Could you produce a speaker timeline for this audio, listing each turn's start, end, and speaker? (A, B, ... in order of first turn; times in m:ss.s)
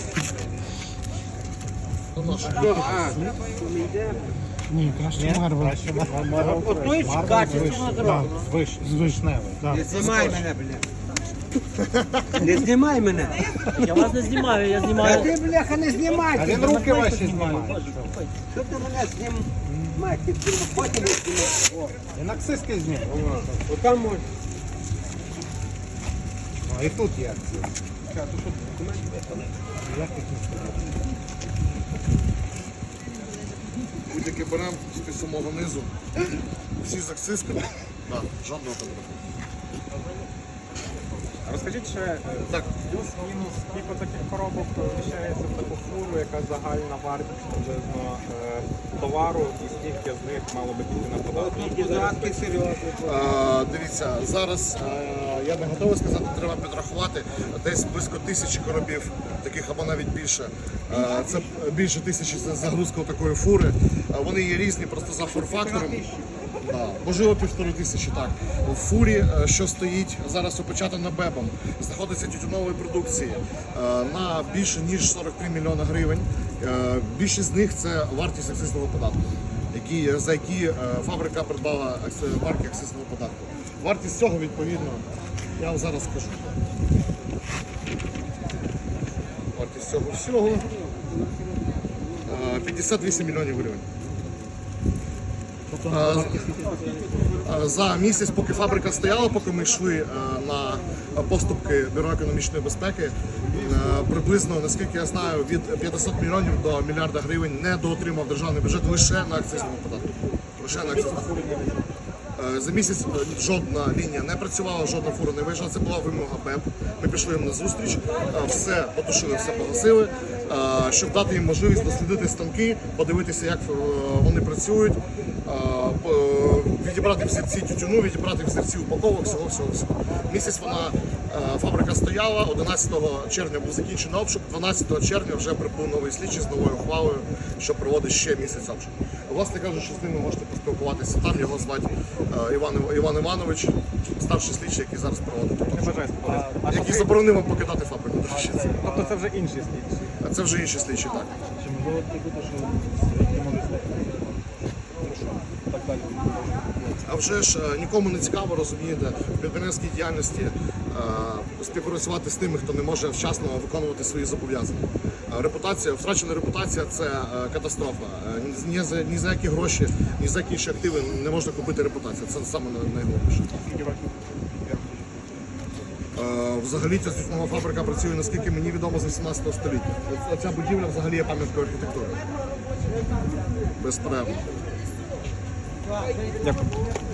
0:02.1-0:03.0 A
0:02.4-0:03.4 B
0:02.6-0:04.4 C
0:04.8-0:09.8 B
0:04.9-0:05.7 A
0:06.2-0:08.4 C
0:07.6-0:08.1 D
0:09.7-0:10.9 C
0:09.7-0:10.4 A
0:12.0-0:12.3 A
0:12.3-0:13.5 C
0:13.8-0:15.4 D
0:14.9-0:16.8 C
0:16.3-0:18.2 B
0:16.6-0:18.4 D
0:18.5-0:22.0 C
0:19.7-0:20.0 B
0:22.1-0:23.5 B
0:23.0-0:24.3 C
0:26.7-0:27.7 B
0:28.1-0:29.5 C
0:29.8-0:30.8 B
0:34.0-0:35.9 A
0:36.8-0:39.2 A
0:41.4-0:52.5 E
0:51.3-0:53.3 C
0:53.0-1:06.0 A
1:05.5-1:06.4 C
1:06.6-1:26.5 A
1:29.5-1:30.7 A
1:32.2-1:33.8 A
1:35.7-1:36.8 B
1:35.8-1:36.5 A
1:36.7-1:37.2 C
1:37.4-1:51.3 A
1:50.7-1:51.8 E
1:52.4-2:28.8 A
2:25.6-2:27.2 E
2:28.3-2:29.0 B
2:28.8-2:30.1 E
2:30.2-2:31.3 A
2:31.6-2:34.2 B
2:35.7-2:36.8 B
2:37.0-2:53.5 A
2:53.6-2:54.1 E
2:54.6-2:55.0 E
2:56.1-3:02.2 A
3:03.8-3:04.5 A